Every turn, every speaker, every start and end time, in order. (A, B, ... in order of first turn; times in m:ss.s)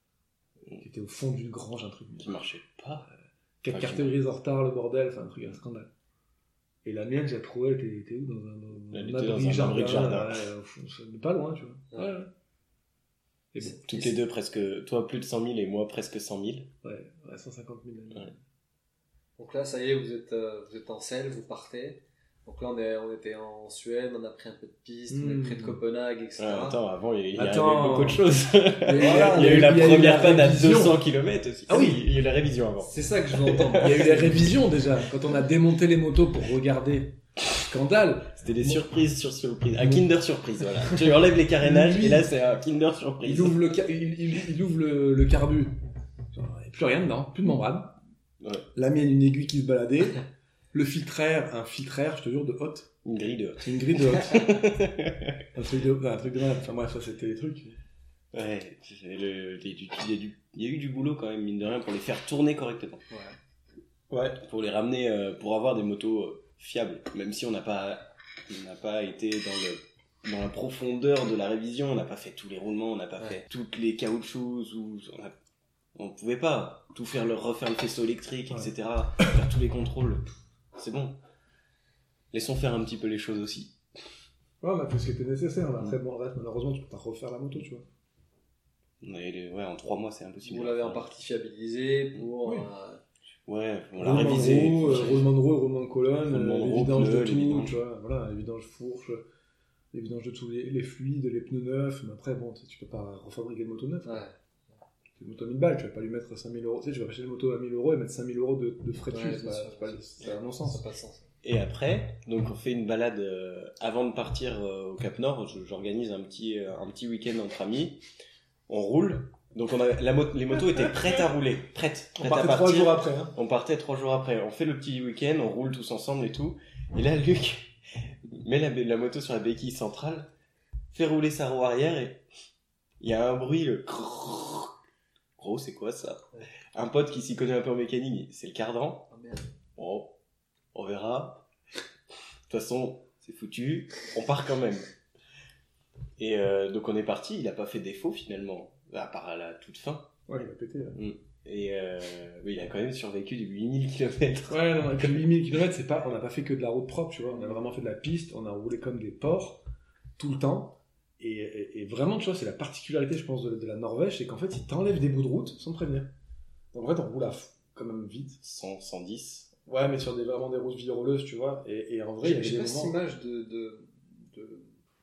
0:00.8-0:02.4 A
0:02.2-0:03.1 B
0:03.6-0:05.9 A
0:03.7-0:04.1 B
0:06.8-0:12.3 A
0:08.9-0:10.5 B
0:11.9-0:12.2 C
0:13.5-0:13.8 A
0:13.6-0:14.1 C
0:13.8-0:16.7 B
0:16.8-0:18.4 A
0:19.4-0:26.8 C
0:25.1-0:25.8 A
0:26.4-0:34.4 B
0:27.4-0:31.0 A
0:28.9-0:29.8 C
0:31.7-0:32.0 A
0:32.8-0:34.5 C
0:33.8-0:38.8 A
0:38.4-0:43.6 B
0:39.8-0:40.0 A
0:41.6-0:42.3 A
0:43.2-0:45.8 A
0:46.3-0:48.0 A
0:48.4-0:48.7 B
0:48.8-0:52.9 A
0:53.0-0:55.4 B
0:53.6-0:54.6 A
0:55.5-0:57.8 A
0:58.3-1:03.0 B
1:03.1-1:03.4 C
1:04.1-1:04.4 A
1:04.4-1:15.4 B
1:16.0-1:21.2 B
1:22.3-1:23.8 B
1:24.6-1:27.9 A
1:29.0-1:31.1 B
1:30.4-1:33.0 C
1:33.5-1:35.3 B
1:34.0-1:39.2 A
1:34.5-1:35.1 C
1:36.2-1:37.8 B
1:39.9-1:44.2 A
1:44.0-1:44.4 C
1:45.2-1:50.8 A
1:49.1-1:51.3 C
1:51.4-1:58.0 B
1:58.7-2:10.3 B
2:00.6-2:01.2 A
2:02.2-2:03.4 A
2:10.9-2:12.2 B
2:13.0-2:14.7 B
2:15.4-2:19.1 B
2:19.1-2:19.5 C
2:19.8-2:20.1 B
2:20.7-2:21.4 B
2:22.5-2:24.9 B
2:26.2-2:30.1 B
2:30.3-2:31.0 A
2:31.0-2:35.3 B
2:34.5-2:39.6 A
2:40.2-2:46.1 A
2:46.7-2:48.4 A
2:48.4-2:49.5 B
2:49.6-2:53.0 A
2:52.2-2:54.7 C